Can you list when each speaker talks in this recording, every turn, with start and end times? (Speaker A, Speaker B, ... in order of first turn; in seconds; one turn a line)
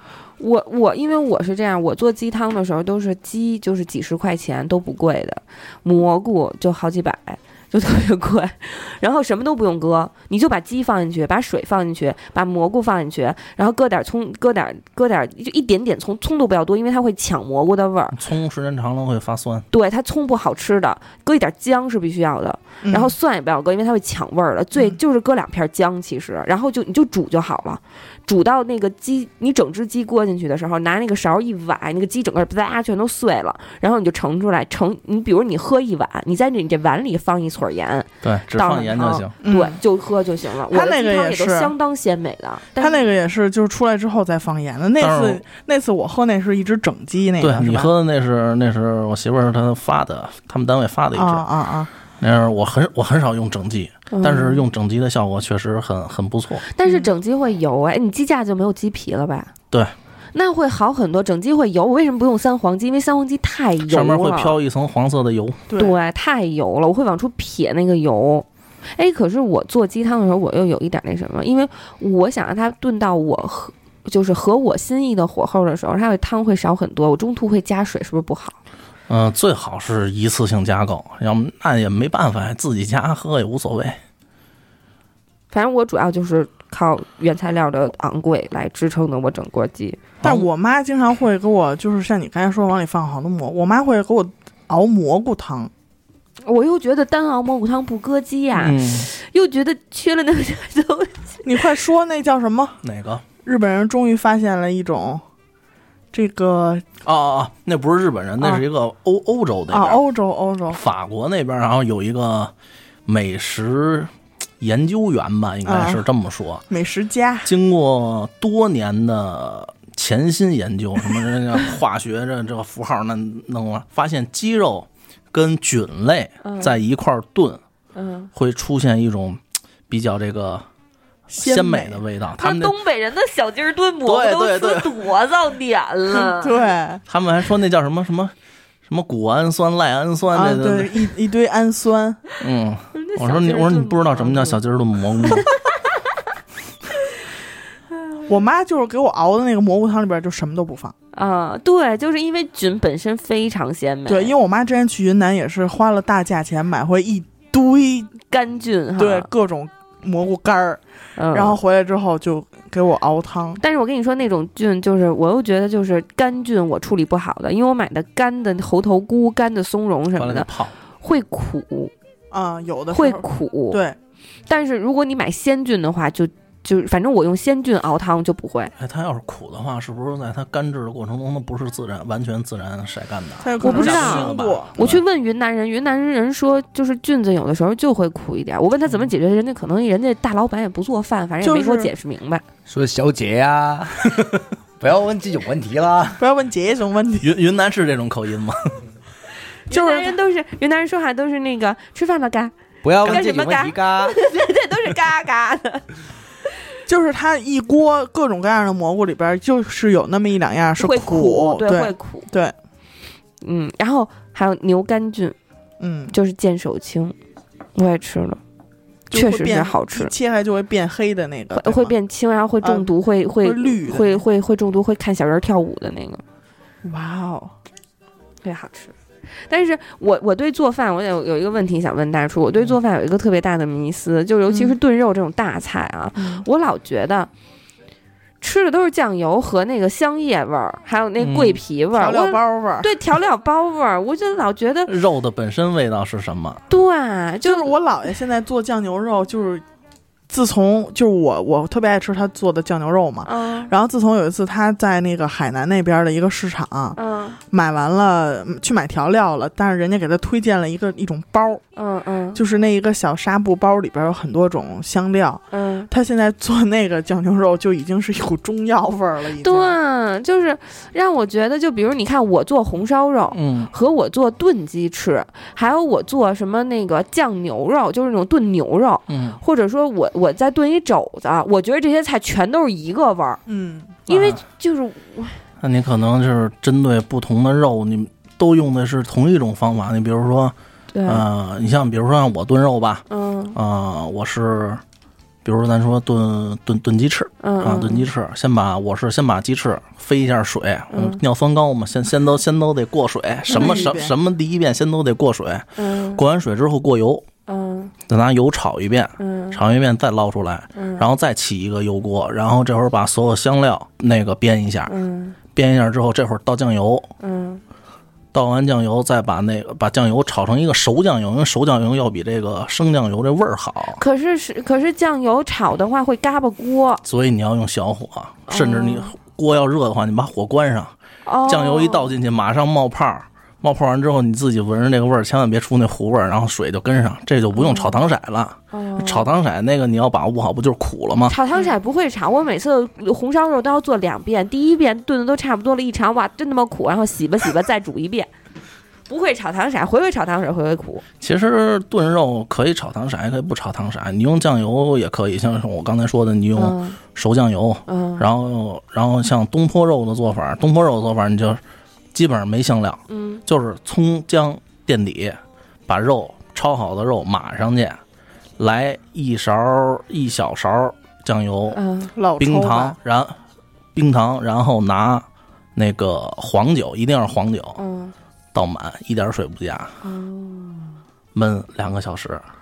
Speaker A: 0.4-18.2
Speaker B: 18.1-19.7
Speaker A: 19.7-43.0
Speaker C: 22.8-23.1
Speaker B: 38.2-39.3
Speaker C: 39.4-39.8
Speaker C: 40.7-41.7
Speaker C: 42.8-47.9
Speaker B: 45.0-45.4
Speaker B: 47.4-51.5
Speaker C: 51.1-51.9
Speaker B: 52.2-56.6
Speaker A: 54.1-54.6
Speaker A: 56.7-59.5
Speaker A: 60.3-64.5
Speaker B: 63.9-65.6
Speaker C: 65.7-66.0
Speaker A: 65.8-78.6
Speaker B: 79.1-84.0
Speaker A: 85.5-90.0
Speaker B: 90.2-90.5
Speaker C: 90.2-95.7
Speaker A: 96.4-101.6
Speaker B: 98.5-99.1
Speaker C: 101.4-102.8
Speaker B: 102.8-103.2
Speaker C: 103.4-105.2
Speaker C: 106.1-106.8
Speaker B: 107.0-110.0
Speaker C: 108.4-108.6
Speaker C: 109.7-110.8
Speaker B: 110.7-112.5
Speaker B: 113.0-116.6
Speaker C: 115.6-116.0
Speaker C: 116.7-117.5
Speaker B: 117.4-127.6
Speaker A: 126.4-126.8
Speaker A: 127.9-128.3
Speaker B: 128.3-130.6
Speaker C: 131.3-132.0
Speaker B: 131.4-132.8
Speaker A: 132.4-136.6
Speaker B: 134.1-135.0
Speaker C: 136.1-137.0
Speaker B: 137.1-138.3
Speaker B: 138.9-141.1
Speaker C: 140.3-142.2
Speaker B: 142.4-145.5
Speaker A: 142.9-144.6
Speaker A: 145.2-145.6
Speaker C: 148.2-150.9
Speaker A: 151.1-154.3
Speaker C: 154.1-158.1
Speaker A: 158.3-159.3
Speaker C: 159.0-163.6
Speaker A: 161.2-161.6
Speaker A: 163.6-171.9
Speaker B: 170.2-170.7
Speaker C: 172.3-173.9
Speaker A: 172.9-173.8
Speaker A: 174.5-178.7
Speaker B: 178.8-185.0
Speaker C: 183.4-184.8
Speaker A: 183.6-192.4
Speaker C: 191.4-191.9
Speaker D: 192.7-196.2
Speaker C: 196.2-197.3
Speaker B: 197.2-198.8
Speaker A: 199.7-205.9
Speaker C: 199.7-200.1
Speaker D: 202.8-204.2
Speaker C: 206.9-212.5
Speaker A: 210.8-212.3
Speaker A: 213.4-215.3
Speaker C: 215.8-216.1
Speaker A: 216.1-217.1
Speaker A: 217.7-218.4
Speaker C: 219.1-221.9
Speaker A: 219.1-220.1
Speaker A: 221.5-226.2
Speaker C: 222.6-222.9
Speaker C: 223.4-224.2
Speaker C: 226.8-227.5
Speaker A: 228.4-228.9
Speaker A: 229.4-237.3
Speaker C: 234.5-234.8
Speaker C: 236.2-236.4
Speaker A: 238.4-244.9
Speaker B: 241.2-241.6
Speaker C: 241.9-242.9
Speaker B: 244.9-246.6
Speaker A: 246.7-247.7
Speaker C: 247.4-249.6
Speaker C: 250.3-257.0
Speaker A: 253.2-253.7
Speaker A: 256.9-257.4
Speaker C: 257.5-261.6
Speaker A: 261.8-262.4
Speaker C: 262.3-269.8
Speaker A: 265.5-265.9
Speaker A: 269.4-283.4
Speaker B: 273.3-273.7
Speaker B: 279.1-279.4
Speaker C: 283.4-284.0
Speaker A: 284.1-285.4
Speaker B: 284.1-284.4
Speaker B: 285.6-290.5
Speaker A: 290.9-291.2
Speaker B: 291.1-294.8
Speaker A: 293.1-293.6
Speaker B: 295.4-307.2
Speaker A: 297.4-298.0
Speaker A: 300.9-301.2
Speaker C: 303.5-304.1
Speaker A: 305.8-306.2
Speaker A: 307.5-307.9
Speaker B: 308.1-314.9
Speaker A: 309.2-309.6
Speaker A: 310.7-311.1
Speaker A: 314.9-315.4
Speaker B: 315.5-317.1
Speaker A: 317.2-317.6
Speaker B: 318.3-324.0
Speaker A: 323.9-327.0
Speaker B: 327.0-330.9
Speaker A: 328.5-329.1
Speaker A: 331.2-332.1
Speaker B: 331.5-341.3
Speaker A: 337.6-338.0
Speaker A: 338.7-339.3
Speaker A: 341.3-348.3
Speaker A: 349.1-351.0
Speaker B: 351.2-361.6
Speaker A: 356.6-357.0
Speaker A: 357.9-358.2
Speaker B: 362.1-368.0
Speaker A: 363.1-363.4
Speaker B: 368.6-371.8
Speaker A: 371.7-372.1
Speaker C: 372.1-373.0
Speaker B: 372.4-373.4
Speaker B: 373.9-377.8
Speaker A: 377.8-378.1
Speaker B: 378.5-380.0
Speaker A: 380.0-381.0
Speaker B: 381.3-382.4